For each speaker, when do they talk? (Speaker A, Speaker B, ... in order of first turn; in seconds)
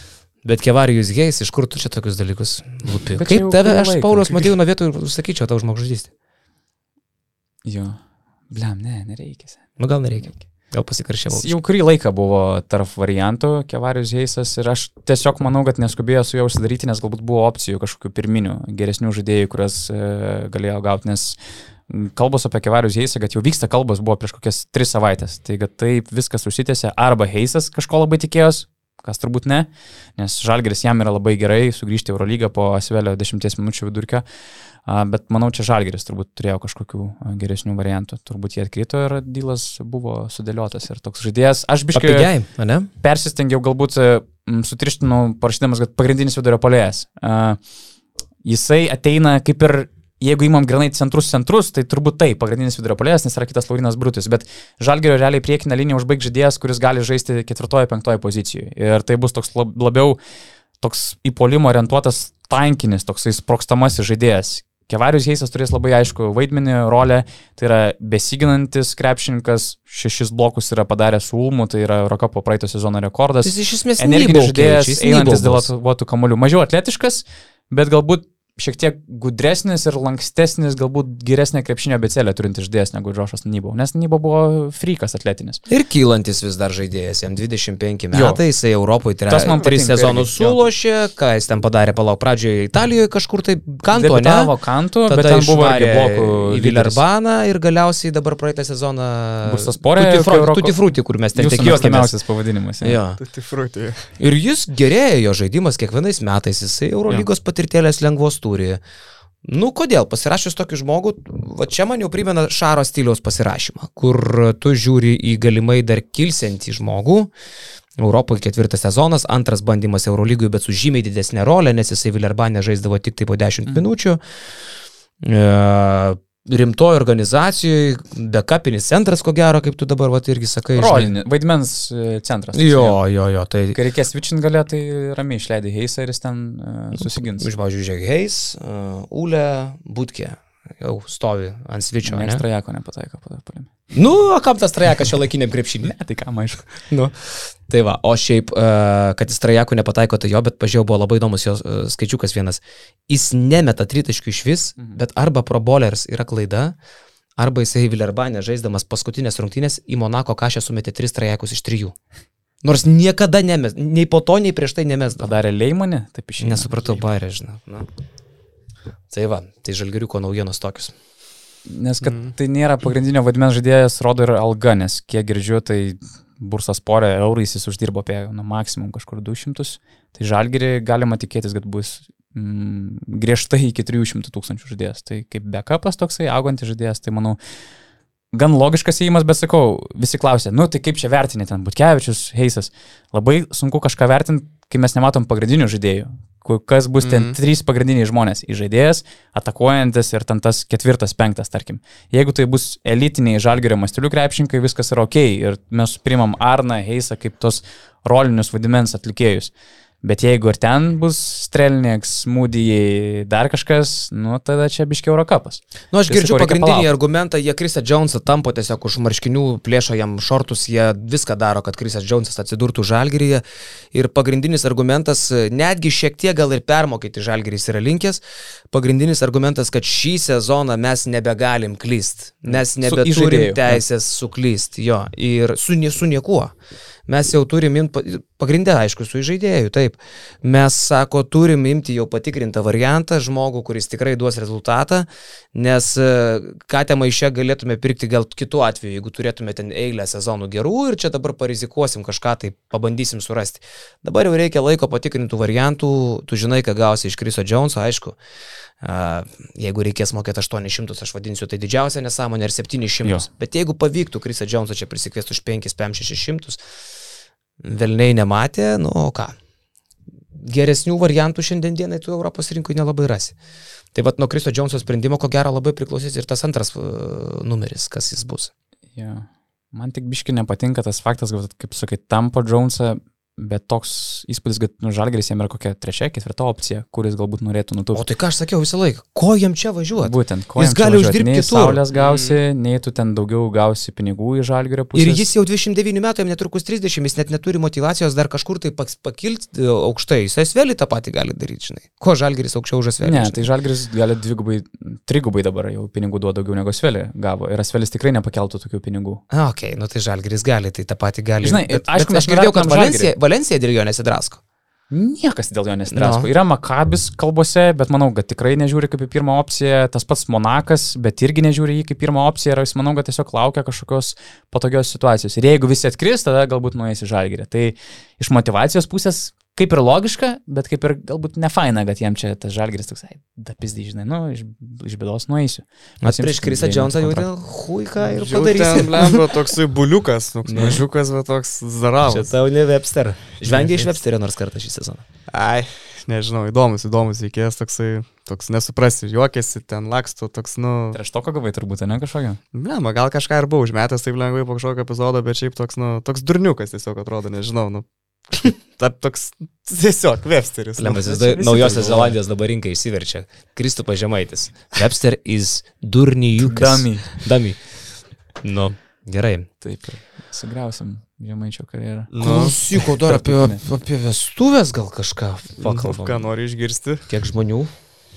Speaker A: 0.4-6.1, 9.8-11.5, 41.9-42.9, 73.4-75.7, 85.7-94.5, 95.1-102.2, 102.8-103.2, 104.2-108.8, 109.4-117.3, 118.0-124.2, 125.2-131.1, 132.5-133.8, 137.0-142.4, 143.9-145.9, 146.9-156.8, 157.4-161.9, 162.6-165.3, 166.4-167.9, 169.1-170.9, 215.9-236.5, 237.1-258.2, 258.8-266.6, 267.6-269.3, 270.4-273.3, 273.9-278.5, 287.9-291.8, 294.9-303.5, 309.3-314.4, 315.9-316.3, 336.0-339.2, 340.4-340.8, 342.0-345.0, 360.8-367.6, 368.4-369.5, 372.2-376.3, 377.1-377.7
Speaker B: 3.1-4.5, 7.6-8.0, 8.5-9.7, 11.3-34.2, 34.8-42.3, 43.0-47.6, 48.4-60.2, 60.8-85.6, 88.1-88.4, 89.3-90.7, 93.9-97.0, 99.4-100.8, 101.3-103.0, 130.8-133.0, 133.7-137.5, 142.0-143.7, 145.8-146.7, 165.2-167.0, 171.7-187.4, 188.3-209.5, 210.0-216.9, 232.5-233.8, 278.9-288.0, 290.0-295.2, 303.0-309.2, 311.4-313.1, 314.9-337.3, 350.9-352.4, 361.0-362.2, 366.4-367.2, 369.6-372.1, 372.8-373.6
Speaker C: 103.2-104.1, 172.0-172.3, 197.0-197.3, 291.9-292.4, 338.1-342.3, 343.5-343.9, 345.3-351.0, 352.5-361.0, 372.1-372.6, 375.6-377.1